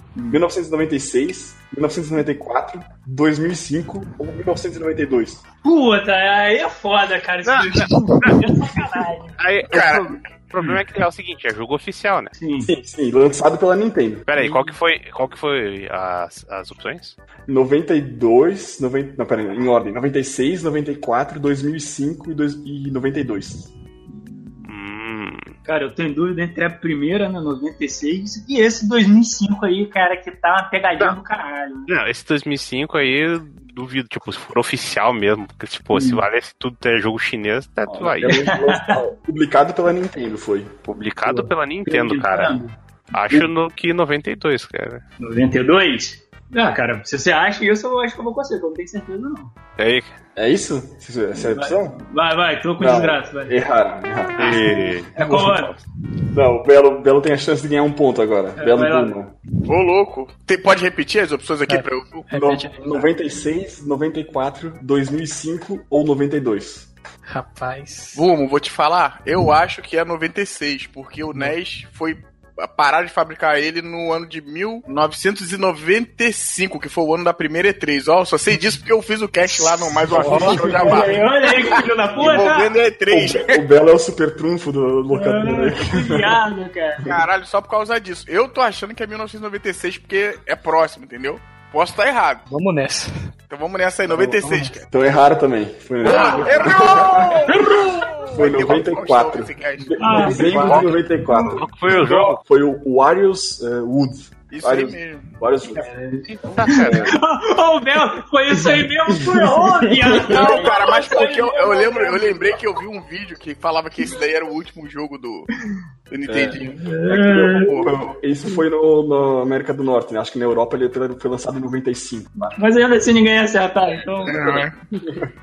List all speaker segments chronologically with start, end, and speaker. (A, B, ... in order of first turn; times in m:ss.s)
0:00.3-0:05.4 A
0:05.6-0:09.3 B
0:07.4-0:08.0 C
0:09.4-0:12.3 C
0:09.7-0:10.2 D
0:12.4-0:12.7 B
0:12.6-0:14.7 A
0:14.3-0:17.2 C
0:17.5-0:23.7 A
0:24.6-0:25.5 C
0:25.6-0:31.9 B
0:31.9-0:38.4 C
0:35.9-0:36.2 B
0:37.9-0:40.8 A
0:38.2-0:39.0 B
0:40.9-0:42.6 C
0:41.2-0:42.7 B
0:43.1-0:45.0 C
0:45.2-0:49.5 B
0:49.8-0:50.1 C
0:50.4-0:52.0 A
0:51.5-0:53.6 B
0:52.8-0:54.9 A
0:54.4-0:55.1 C
0:55.2-0:55.7 B
0:55.2-0:55.8 E
0:56.3-0:59.4 A
0:58.6-0:59.1 B
0:59.7-1:02.3 D
1:01.7-1:03.0 E
1:02.3-1:06.9 A
1:07.3-1:08.2 E
1:08.1-1:23.6 D
1:20.0-1:21.2 A
1:20.1-1:22.7 B
1:23.1-1:26.4 A
1:25.1-1:27.1 B
1:27.0-1:32.5 D
1:32.5-1:33.1 E
1:33.5-1:34.9 D
1:34.1-1:37.5 A
1:34.2-1:34.7 E
1:36.0-1:40.6 D
1:36.1-1:36.7 B
1:38.3-1:45.9 A
1:40.0-1:41.6 B
1:40.4-1:42.4 C
1:44.5-1:45.3 D
1:45.7-1:52.5 B
1:46.3-1:47.1 C
1:46.7-1:47.1 A
1:48.7-1:50.6 A
1:50.3-1:55.5 D
1:56.1-1:57.9 D
1:56.2-2:02.5 A
1:56.8-1:57.8 B
2:02.4-2:04.7 B
2:04.3-2:04.7 D